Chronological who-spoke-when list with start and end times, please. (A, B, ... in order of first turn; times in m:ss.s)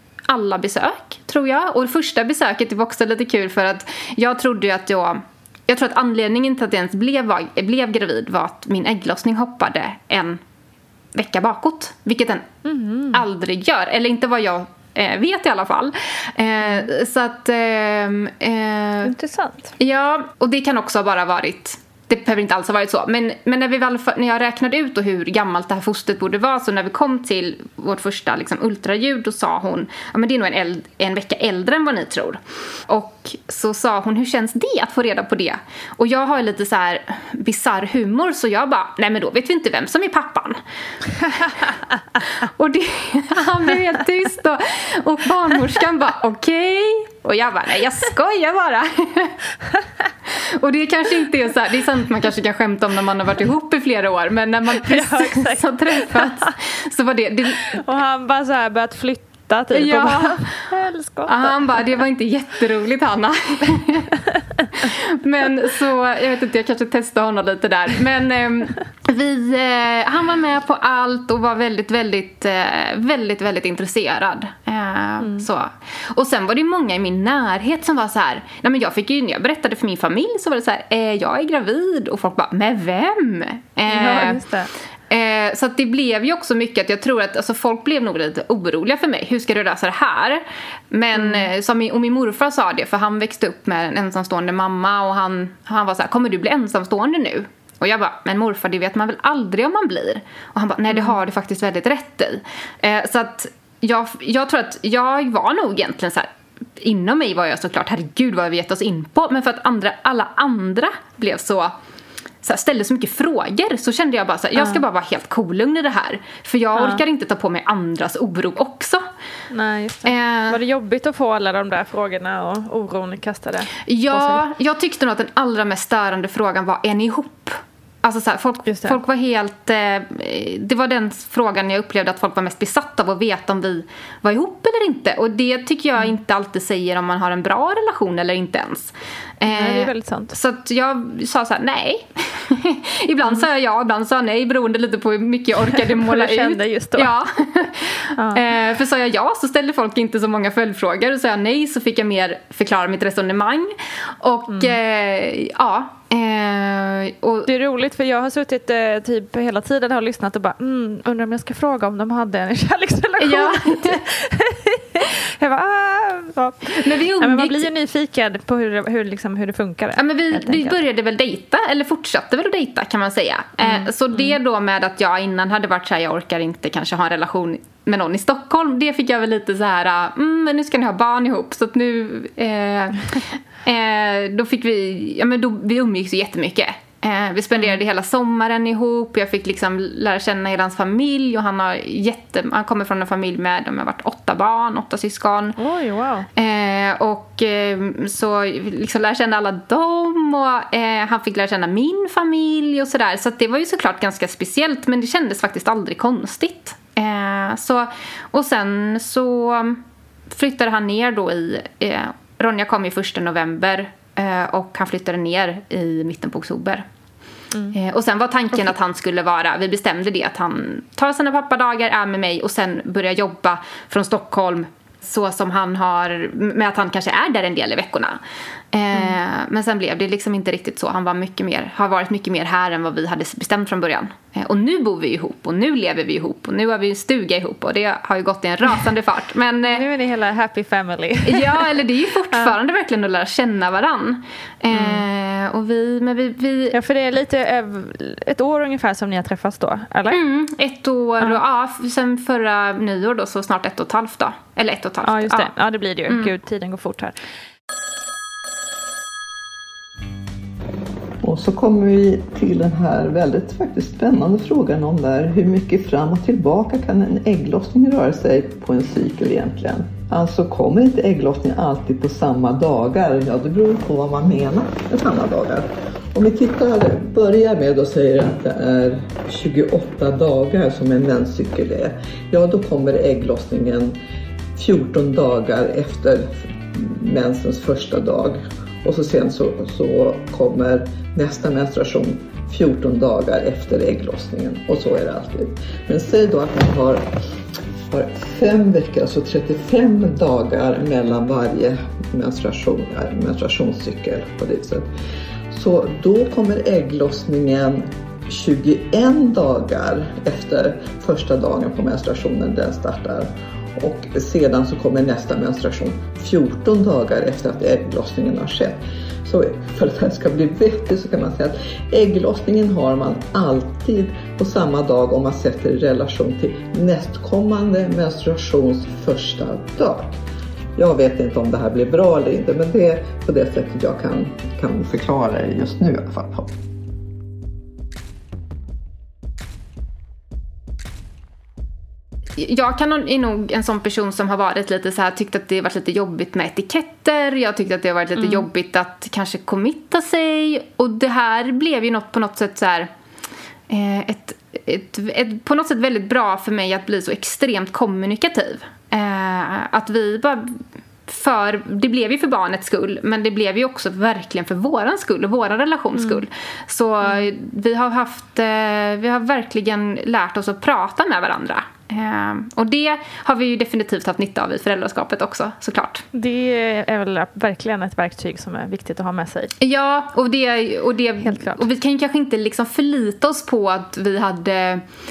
0:00.3-0:10.4 A
0:11.1-0:12.5 A
0:12.6-0:13.2 B
0:13.1-0:19.1 A
0:19.0-0:19.7 B
0:19.8-0:40.6 A
0:42.4-0:49.4 A
0:50.4-0:57.8 A
0:54.9-0:56.5 B
0:57.7-1:01.5 B
0:59.7-1:00.6 A
1:01.3-1:04.1 A
1:04.6-1:04.9 B
1:04.8-1:24.4 A
1:15.2-1:15.5 B
1:23.9-1:24.7 B
1:25.1-1:51.7 A
1:31.2-1:31.5 B
1:52.4-1:59.0 A
1:56.8-1:57.0 B
1:59.5-2:04.4 B
2:00.0-2:00.6 A
2:03.9-2:37.5 A
2:08.6-2:09.0 B
2:19.5-2:20.4 B
2:25.6-2:28.4 B
2:34.5-2:34.8 B
2:37.5-2:50.8 B
2:43.2-2:44.0 A
2:46.8-2:47.6 A
2:50.0-3:15.6 A
2:53.6-2:54.4 B
3:15.6-3:16.3 B
3:16.4-3:36.8 A
3:37.7-3:48.2 A
3:48.7-3:59.9 A
3:59.6-4:01.8 B
4:01.2-4:06.8 A
4:04.7-4:05.0 B
4:06.7-4:10.2 B
4:10.1-4:15.5 A
4:15.0-4:17.2 B
4:21.2-4:44.0 C
4:44.6-4:57.1 C
4:57.9-5:04.9 C
5:05.5-5:30.2 C
5:30.8-5:36.5 C
5:42.4-5:52.9 A
5:48.2-5:48.4 B
5:53.7-6:16.0 A
6:06.0-6:06.2 B
6:16.1-6:19.5 B
6:19.6-6:24.8 A
6:21.2-6:21.6 B